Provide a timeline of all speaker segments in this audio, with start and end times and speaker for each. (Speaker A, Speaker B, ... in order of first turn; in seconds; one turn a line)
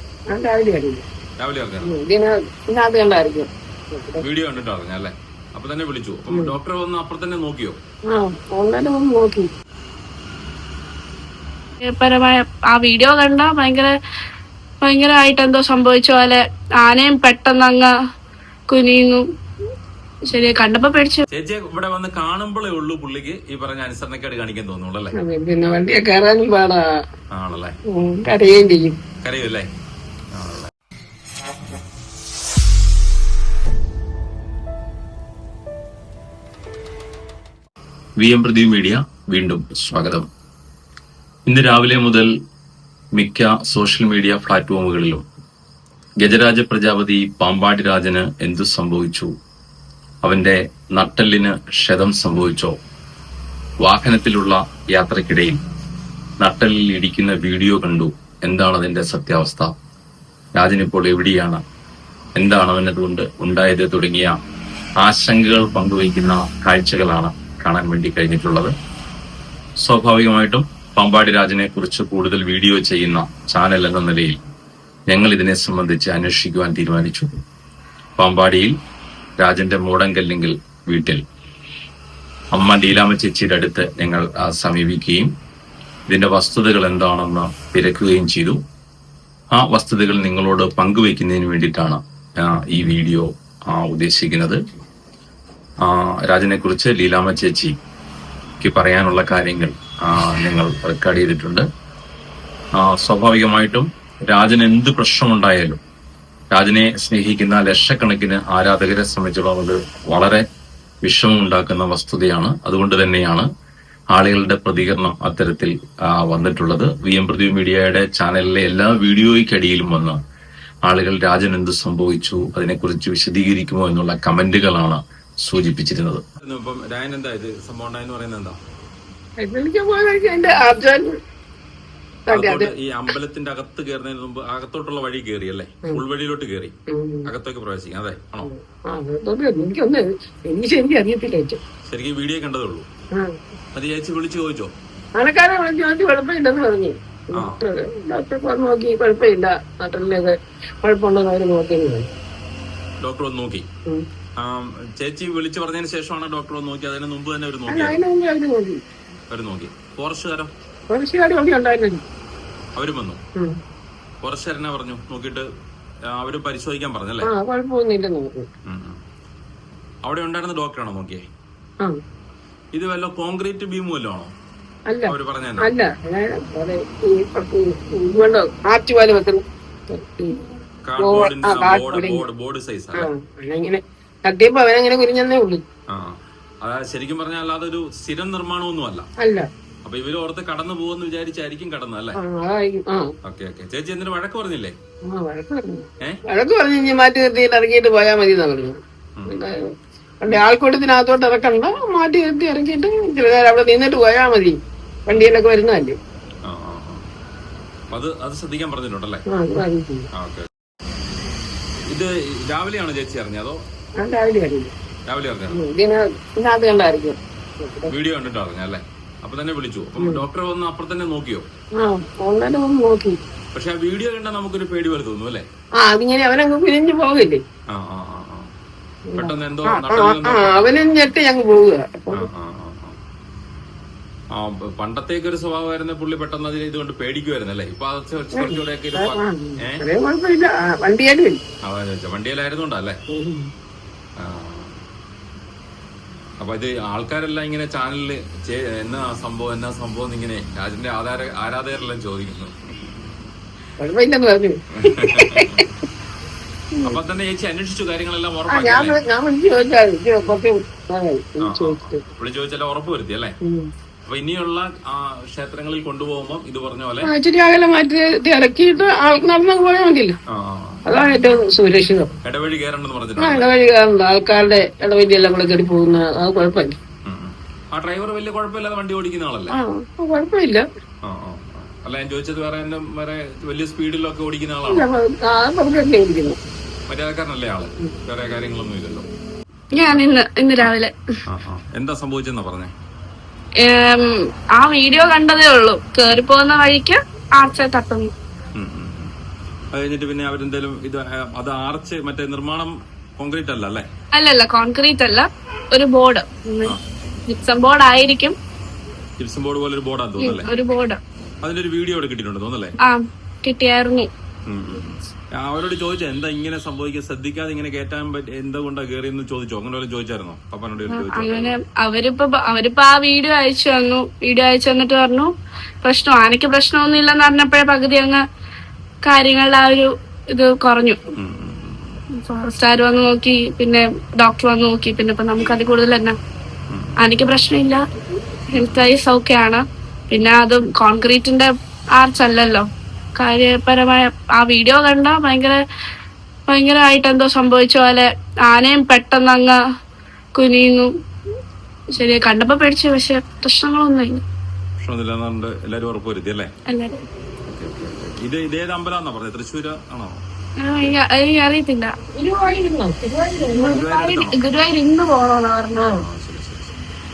Speaker A: 0.3-1.0
Speaker B: 1.4-2.0
Speaker A: 1.8-4.2
Speaker B: 4.2-7.8
Speaker A: 8.1-9.5
Speaker C: 11.9-13.9
Speaker C: 14.8-17.9
Speaker C: 18.7-19.2
Speaker C: 20.3-21.2
Speaker B: 21.3-25.1
Speaker A: 25.2-26.8
Speaker B: 27.3-27.7
Speaker A: 27.9-29.0
Speaker B: 29.2-29.7
Speaker B: 30.3-30.7
Speaker B: 38.2-40.2
Speaker B: 41.5-42.3
Speaker B: 43.1-45.2
Speaker B: 46.2-49.3
Speaker B: 50.2-52.7
Speaker B: 53.8-55.6
Speaker B: 56.4-59.7
Speaker B: 60.6-61.6
Speaker B: 62.4-64.3
Speaker B: 65.0-68.7
Speaker B: 69.8-74.4
Speaker B: 75.1-77.3
Speaker B: 78.2-78.7
Speaker B: 79.4-81.2
Speaker B: 82.5-85.3
Speaker B: 86.1-88.6
Speaker B: 89.5-94.6
Speaker B: 95.8-97.8
Speaker B: 98.6-101.6
Speaker B: 102.8-105.8
Speaker B: 106.5-110.4
Speaker B: 111.0-113.5
Speaker B: 114.1-120.2
Speaker B: 120.8-128.6
Speaker A: 129.4-131.1
Speaker A: 132.3-132.7
Speaker B: 132.3-138.5
Speaker A: 136.9-137.3
Speaker A: 138.4-141.6
Speaker B: 141.8-142.9
Speaker B: 143.7-144.7
Speaker A: 145.2-152.1
Speaker B: 147.3-147.6
Speaker B: 153.0-153.7
Speaker B: 154.4-158.0
Speaker A: 157.7-158.8
Speaker B: 159.3-160.5
Speaker A: 160.9-162.0
Speaker B: 162.8-163.2
Speaker B: 164.2-165.4
Speaker B: 166.1-167.3
Speaker A: 167.2-168.4
Speaker B: 168.7-169.0
Speaker B: 170.0-171.2
Speaker B: 172.7-174.3
Speaker A: 174.9-180.4
Speaker B: 175.1-175.7
Speaker B: 180.8-183.1
Speaker A: 181.0-182.2
Speaker A: 182.9-185.6
Speaker B: 185.9-189.1
Speaker A: 189.2-189.4
Speaker B: 189.8-192.2
Speaker A: 192.2-193.1
Speaker B: 193.2-194.7
Speaker A: 195.1-199.6
Speaker A: 200.2-205.9
Speaker B: 205.1-205.3
Speaker B: 206.4-207.1
Speaker B: 207.9-209.2
Speaker A: 209.3-210.1
Speaker B: 210.2-210.5
Speaker B: 211.9-213.6
Speaker A: 214.0-214.7
Speaker B: 215.1-215.7
Speaker A: 215.5-217.9
Speaker B: 217.9-221.4
Speaker A: 221.8-223.2
Speaker B: 223.5-225.4
Speaker A: 225.8-227.4
Speaker B: 227.7-228.5
Speaker A: 229.1-232.3
Speaker B: 229.2-230.7
Speaker B: 232.1-233.0
Speaker B: 234.3-239.8
Speaker A: 238.3-241.4
Speaker B: 241.6-243.0
Speaker A: 243.1-243.5
Speaker B: 244.2-244.8
Speaker B: 246.4-252.6
Speaker A: 253.8-255.6
Speaker B: 254.8-255.7
Speaker B: 256.8-259.0
Speaker A: 258.5-262.0
Speaker B: 261.4-263.4
Speaker B: 264.1-267.1
Speaker A: 267.0-270.1
Speaker B: 270.3-270.8
Speaker A: 270.8-272.1
Speaker B: 272.2-273.4
Speaker A: 273.2-276.8
Speaker B: 277.1-279.6
Speaker A: 279.5-280.6
Speaker B: 281.0-284.9
Speaker A: 284.7-286.4
Speaker B: 286.9-289.1
Speaker C: 289.7-290.9
Speaker B: 289.8-290.1
Speaker B: 291.3-292.7
Speaker C: 293.6-298.1
Speaker B: 298.6-299.1
Speaker B: 299.7-303.9
Speaker C: 304.1-306.7
Speaker C: 307.3-308.3
Speaker B: 309.2-310.5
Speaker C: 310.2-311.0
Speaker B: 311.4-312.8
Speaker C: 312.8-314.1
Speaker B: 314.5-321.6
Speaker C: 320.9-325.3
Speaker C: 325.8-328.2
Speaker C: 329.0-331.0
Speaker B: 331.1-332.0
Speaker C: 332.2-336.1
Speaker B: 336.7-337.1
Speaker C: 337.0-337.8
Speaker C: 338.5-345.6
Speaker B: 338.5-338.9
Speaker C: 346.5-349.6
Speaker C: 350.3-350.9
Speaker C: 351.9-354.2
Speaker B: 354.8-356.5
Speaker C: 356.7-357.0
Speaker B: 357.4-360.2
Speaker C: 360.6-361.9
Speaker A: 362.1-363.9
Speaker B: 363.6-364.4
Speaker C: 363.7-366.0
Speaker B: 365.9-366.8